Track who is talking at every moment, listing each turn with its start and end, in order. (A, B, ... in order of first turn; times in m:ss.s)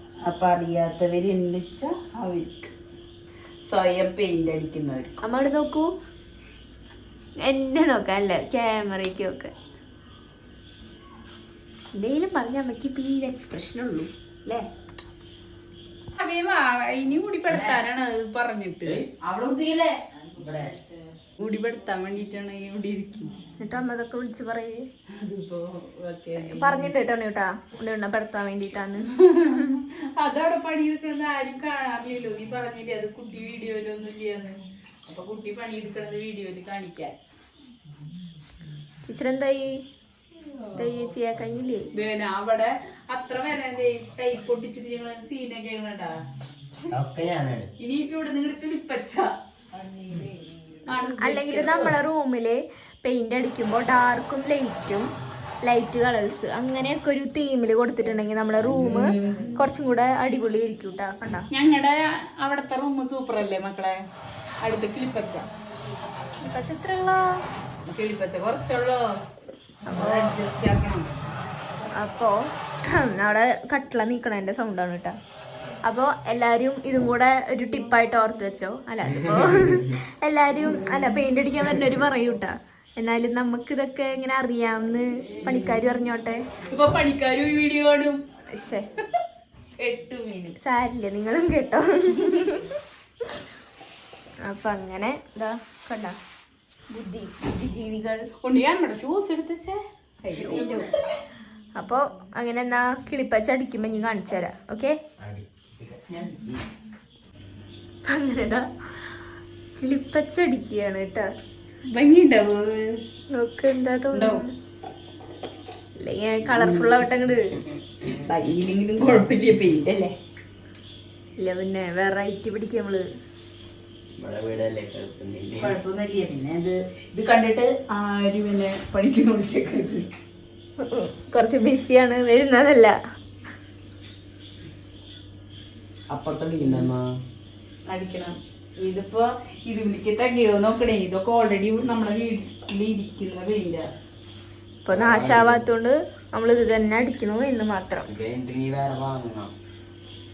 0:00.2-0:02.7 A
0:03.7-0:05.2 A
0:05.2-0:05.9 B
0:07.4-0:09.5 B
0:12.0-0:14.7 B
0:16.2-0:19.1 A
0:17.5-0:17.8 C
0:18.8-0:20.8 C
0:21.4-0:23.3 A
0:23.6-0:24.8 B
0:25.2-0:26.9 A
0:26.4-0:29.1 B
0:29.1-0:37.2 A
0:39.0-0:39.8 B
0:40.6-0:41.0 A
0:40.7-0:41.9 B
0:41.9-0:46.2 A
0:46.9-0:47.7 C
0:47.8-0:50.3 A
0:50.8-0:52.0 A
0:51.2-0:55.1 B
0:55.6-1:01.5 B
0:58.7-0:59.6 A
0:58.8-0:59.3 C
1:01.5-1:04.0 A
1:04.6-1:05.5 A
1:06.4-1:07.4 B
1:07.9-1:09.0 A
1:09.9-1:11.1 A
1:09.9-1:10.4 B
1:12.0-1:15.2 B
1:15.8-1:26.5 B
1:20.7-1:21.2 A
1:25.5-1:25.8 A
1:26.6-1:28.2 A
1:28.5-1:28.9 B
1:29.8-1:30.6 A
1:30.6-1:32.8 B
1:32.2-1:32.5 A
1:34.4-1:36.2 B
1:36.9-1:38.3 B
1:38.4-1:41.0 A
1:40.3-1:40.9 B
1:41.8-1:45.0 B
1:45.2-1:46.6 C
1:48.1-1:48.7 B
1:49.8-1:51.3 B
1:51.9-1:53.0 A
1:53.3-1:54.5 B
1:54.1-1:54.4 A
1:56.0-1:57.5 B
1:56.5-1:57.0 A
1:58.2-2:00.1 A
2:01.4-2:03.0 B
2:04.2-2:05.8 C
2:05.6-2:10.2 A
2:10.8-2:13.0 B
2:16.1-2:17.1 C
2:17.9-2:23.9 A
2:24.8-2:28.1 B
2:24.9-2:25.7 C
2:28.1-2:29.5 C